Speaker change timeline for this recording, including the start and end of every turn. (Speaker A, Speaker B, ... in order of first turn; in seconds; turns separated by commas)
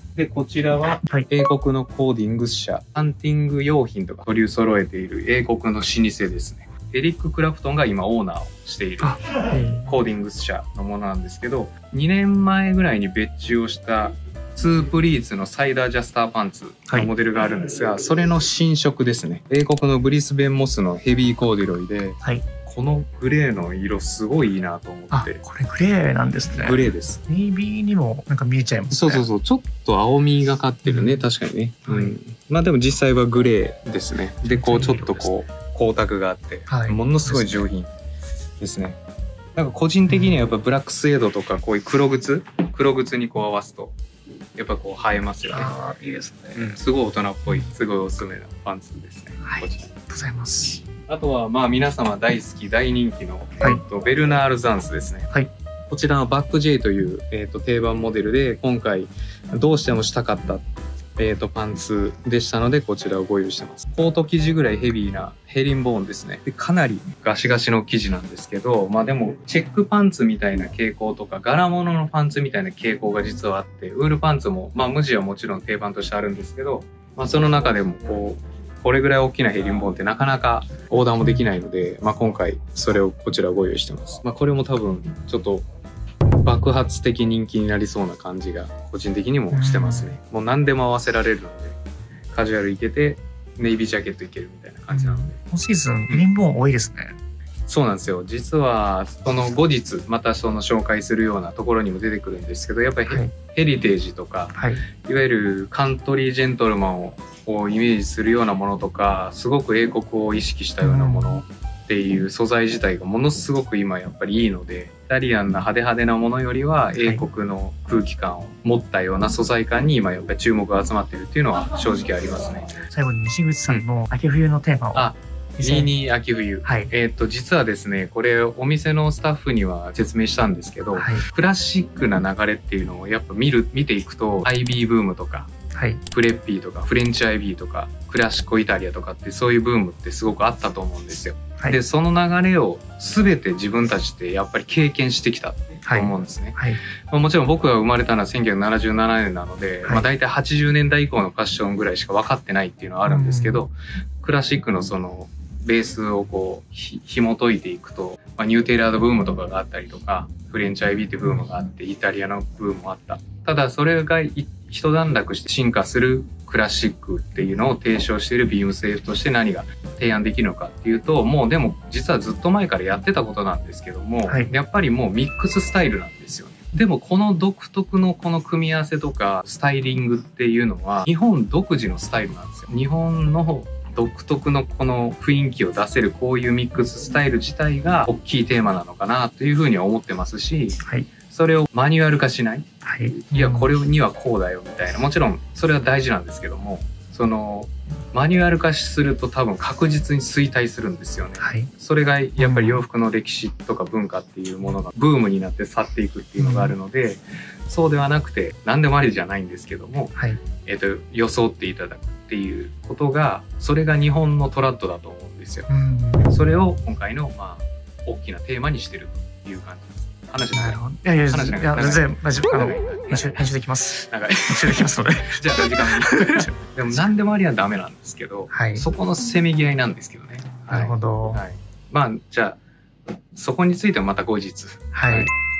Speaker A: 0.2-9.2, Speaker B: 9.0-9.9, Speaker A: 9.8-25.4, Speaker B: 25.1-29.2, Speaker A: 26.6-27.2, Speaker A: 28.9-37.9, Speaker B: 30.9-31.2, Speaker B: 31.9-32.1, Speaker B: 34.5-35.3, Speaker B: 36.7-37.6, Speaker A: 38.6-39.0, Speaker A: 39.6-44.0, Speaker B: 40.1-40.4, Speaker A: 44.6-45.7, Speaker B: 45.5-46.7, Speaker A: 46.5-49.9, Speaker B: 49.4-50.8, Speaker A: 51.1-55.3, Speaker A: 55.9-60.6, Speaker A: 61.2-85.7, Speaker A: 86.4-91.8, Speaker B: 89.5-90.1, Speaker A: 92.3-95.4, Speaker B: 94.9-97.2, Speaker A: 97.7-122.7, Speaker B: 104.5-104.8, Speaker B: 110.8-111.4, Speaker B: 117.0-117.2, Speaker B: 122.9-125.9, Speaker A: 124.9-135.5, Speaker B: 126.6-126.9, Speaker B: 131.0-131.2, Speaker B: 135.7-136.0, Speaker A: 136.1-146.6, Speaker B: 145.8-146.8, Speaker A: 147.1-210.1, Speaker B: 153.1-153.7, Speaker B: 192.8-193.7, Speaker B: 201.4-201.7, Speaker B: 202.4-202.8, Speaker B: 206.4-206.8, Speaker B: 210.2-210.4, Speaker A: 210.7-215.7, Speaker B: 215.7-216.3, Speaker A: 216.3-232.6, Speaker B: 220.5-223.9, Speaker B: 224.5-226.5, Speaker B: 228.5-228.9, Speaker B: 230.7-231.4, Speaker A: 233.3-235.3, Speaker B: 234.9-235.3